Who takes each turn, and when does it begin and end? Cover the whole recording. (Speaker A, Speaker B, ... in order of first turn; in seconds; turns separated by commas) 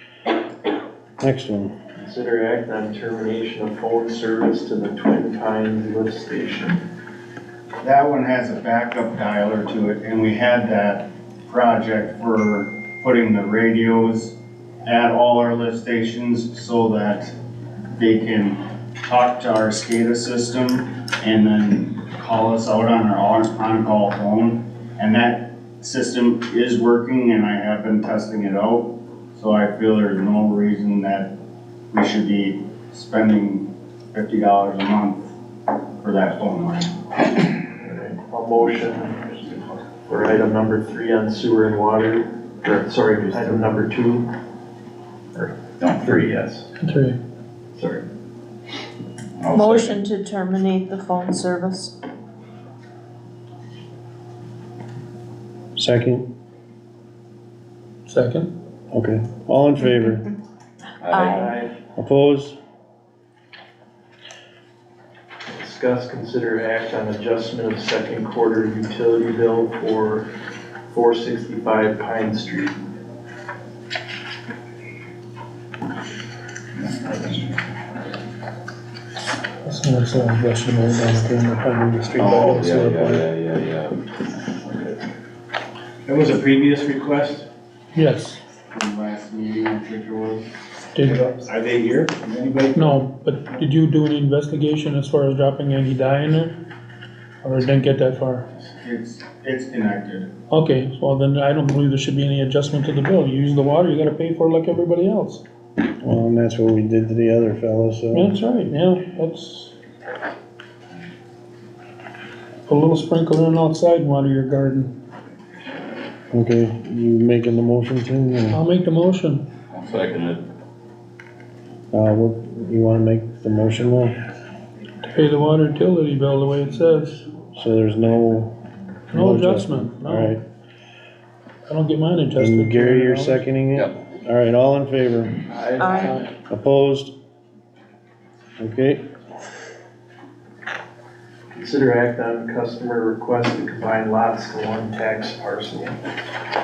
Speaker A: 1.2-1.7, Speaker B: 2.0-6.8, Speaker C: 7.8-17.3, Speaker C: 18.0-31.3, Speaker C: 31.9-35.4, Speaker C: 36.0-36.9, Speaker B: 37.8-39.5, Speaker B: 40.1-44.3, Speaker B: 45.4-46.7, Speaker D: 45.8-46.2, Speaker E: 46.8-47.2, Speaker B: 47.8-48.0, Speaker D: 49.4-50.0, Speaker F: 49.5-51.9, Speaker A: 55.8-56.3, Speaker E: 58.1-58.5, Speaker A: 58.9-60.3, Speaker D: 61.0-61.5, Speaker F: 61.1-61.5, Speaker B: 61.3-61.7, Speaker A: 62.0-62.6, Speaker B: 65.5-70.3, Speaker B: 70.9-72.8, Speaker D: 76.8-77.5, Speaker E: 79.6-83.3, Speaker D: 82.2-85.0, Speaker G: 86.1-87.5, Speaker E: 88.0-88.4, Speaker C: 88.7-90.5, Speaker E: 90.9-91.3, Speaker G: 91.1-93.0, Speaker E: 92.7-96.5, Speaker E: 97.4-98.5, Speaker C: 98.8-100.3, Speaker E: 100.5-105.4, Speaker A: 106.0-108.4, Speaker E: 108.1-109.7, Speaker E: 112.7-114.9, Speaker A: 116.3-118.6, Speaker E: 118.5-119.4, Speaker D: 119.7-120.4, Speaker A: 121.9-124.2, Speaker E: 125.1-127.2, Speaker A: 127.5-128.6, Speaker A: 129.1-130.4, Speaker E: 129.1-130.4, Speaker E: 131.7-133.5, Speaker A: 132.4-135.4, Speaker B: 135.5-136.3, Speaker F: 135.8-136.2, Speaker A: 136.5-137.1, Speaker A: 138.6-139.0, Speaker B: 141.5-146.0